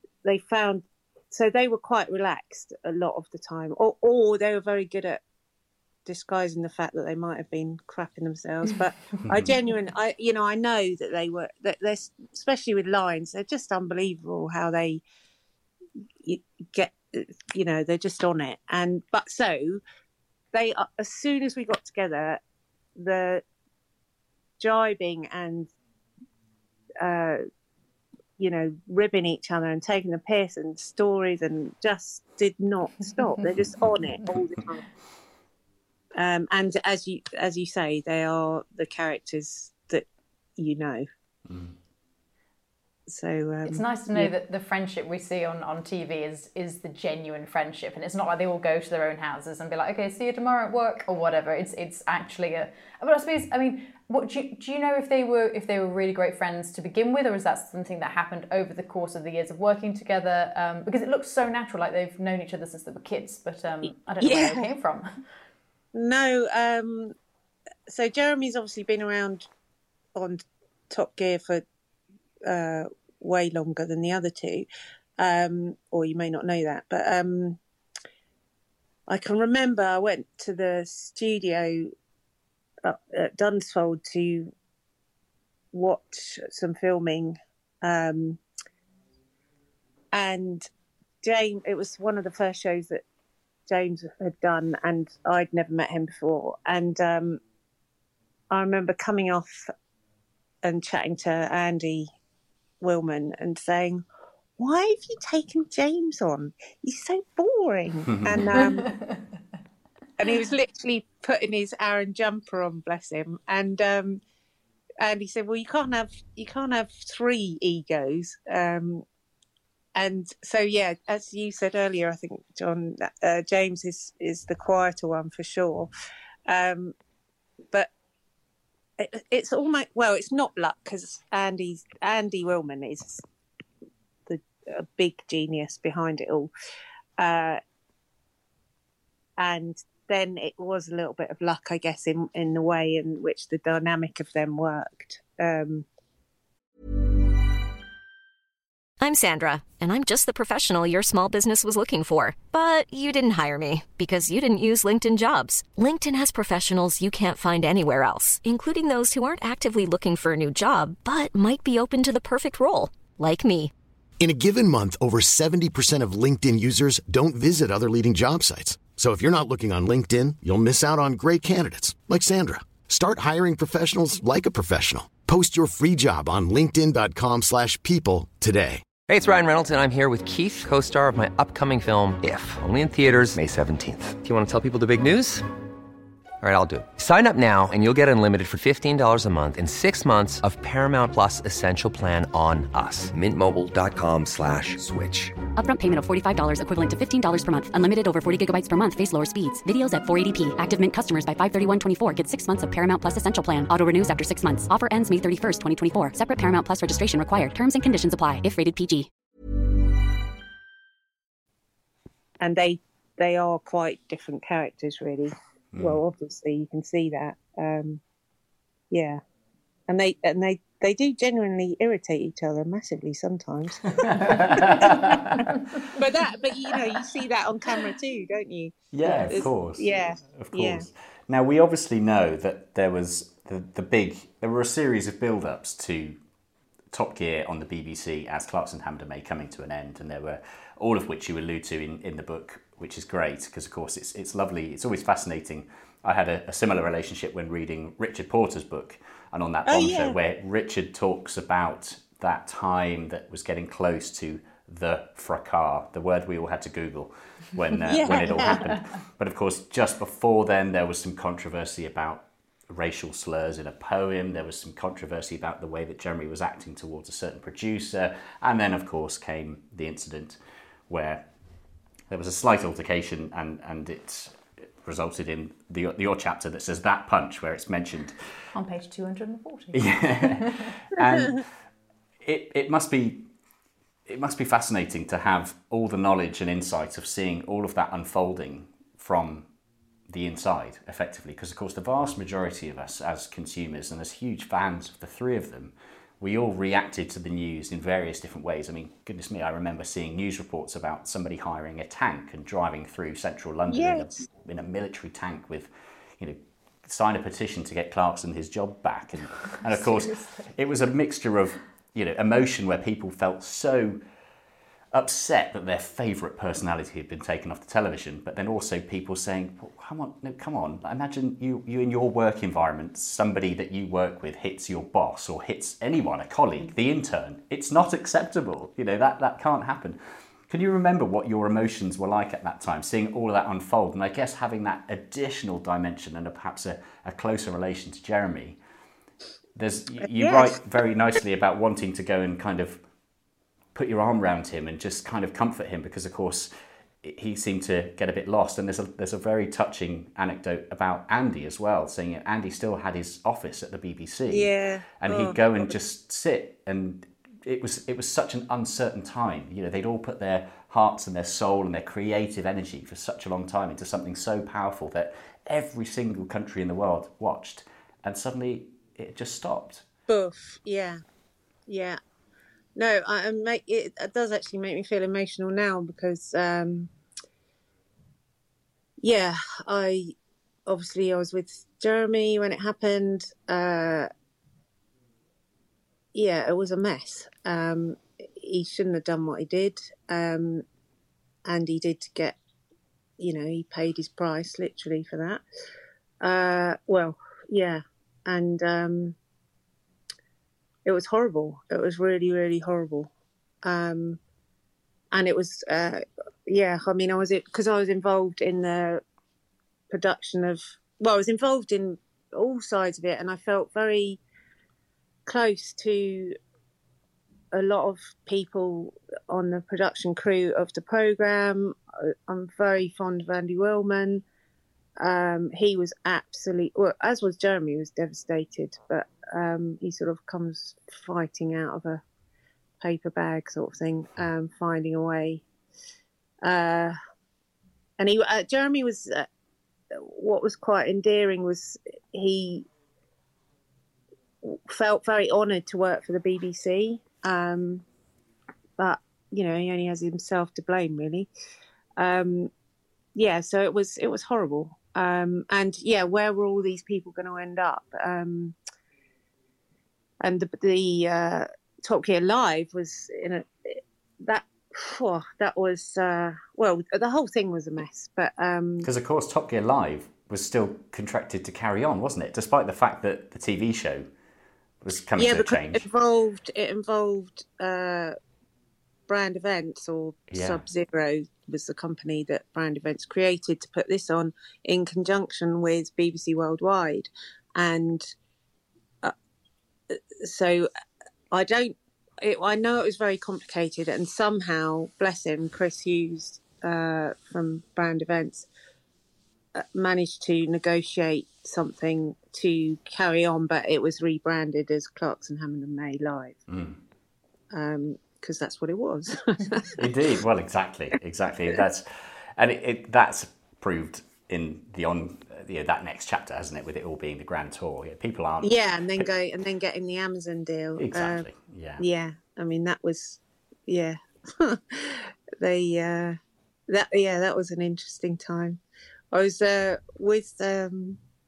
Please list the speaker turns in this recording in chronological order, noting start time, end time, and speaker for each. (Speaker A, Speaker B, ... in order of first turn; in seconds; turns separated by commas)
Speaker A: 0.2-5.2, Speaker A: 6.1-15.0, Speaker B: 9.3-9.5, Speaker A: 16.2-19.8, Speaker A: 20.5-22.4, Speaker A: 23.0-23.4, Speaker A: 24.6-25.7, Speaker A: 27.0-27.4, Speaker A: 28.4-34.9, Speaker A: 36.2-41.0, Speaker B: 41.5-41.7, Speaker A: 43.1-44.3, Speaker C: 43.7-65.1, Speaker A: 64.2-64.7, Speaker A: 65.9-67.1, Speaker A: 67.9-69.5, Speaker A: 70.2-71.6, Speaker A: 72.5-74.7, Speaker A: 75.2-77.6, Speaker A: 79.1-81.9, Speaker A: 82.8-84.5, Speaker A: 85.7-88.4, Speaker A: 90.1-90.7, Speaker A: 91.2-93.0, Speaker A: 93.7-97.4, Speaker A: 98.5-99.7, Speaker A: 100.6-102.1, Speaker A: 102.8-104.0, Speaker A: 104.6-109.0, Speaker B: 108.1-108.5, Speaker C: 108.9-109.2, Speaker A: 110.2-114.2, Speaker A: 115.0-119.0, Speaker A: 120.0-125.9, Speaker A: 126.5-126.9, Speaker A: 129.0-133.2, Speaker A: 134.3-136.5, Speaker A: 137.2-137.6, Speaker A: 139.4-145.9, Speaker D: 149.0-163.7, Speaker E: 164.2-178.9, Speaker F: 179.1-185.5, Speaker F: 186.4-195.3, Speaker G: 195.6-209.1, Speaker A: 212.4-218.0, Speaker A: 218.9-219.2, Speaker A: 219.9-230.9, Speaker B: 224.0-225.5, Speaker C: 225.5-225.8, Speaker B: 228.9-236.2, Speaker C: 229.0-229.5, Speaker B: 236.9-270.4, Speaker A: 249.7-250.2, Speaker A: 257.9-258.7, Speaker B: 270.9-271.3, Speaker B: 272.1-278.1, Speaker C: 278.5-280.7, Speaker B: 279.7-281.5, Speaker B: 282.2-283.3, Speaker B: 284.1-289.5, Speaker B: 290.1-314.0, Speaker A: 303.7-304.2, Speaker C: 309.6-310.5, Speaker B: 314.9-338.6, Speaker B: 339.6-342.8, Speaker A: 340.2-340.6, Speaker B: 343.8-346.5, Speaker B: 347.0-369.9, Speaker A: 354.3-355.7, Speaker A: 370.1-371.0, Speaker A: 371.7-372.0, Speaker A: 372.8-376.9, Speaker A: 379.0-380.1, Speaker A: 380.7-384.1, Speaker A: 386.1-390.6, Speaker A: 391.5-392.4, Speaker A: 393.2-395.4, Speaker A: 396.2-399.2, Speaker A: 400.9-403.1, Speaker A: 403.6-404.2, Speaker A: 405.1-409.0, Speaker A: 409.9-414.2, Speaker A: 415.3-416.4, Speaker A: 417.5-424.2, Speaker A: 425.0-432.0, Speaker A: 432.8-435.4, Speaker A: 436.4-436.9, Speaker A: 438.0-439.3, Speaker A: 439.9-442.7, Speaker A: 444.4-447.9, Speaker A: 448.8-451.3, Speaker A: 452.0-452.5, Speaker A: 453.2-458.6, Speaker A: 460.2-468.9, Speaker B: 468.8-474.1, Speaker B: 474.8-475.8, Speaker A: 475.2-478.1, Speaker A: 479.1-488.1, Speaker B: 480.3-480.6, Speaker A: 489.9-490.7, Speaker A: 491.3-498.5, Speaker A: 499.6-506.4, Speaker B: 506.5-506.8, Speaker A: 507.5-509.8, Speaker B: 509.8-519.1, Speaker A: 518.4-521.3, Speaker B: 520.8-521.8, Speaker A: 521.8-526.2, Speaker A: 526.7-528.6, Speaker A: 529.1-531.0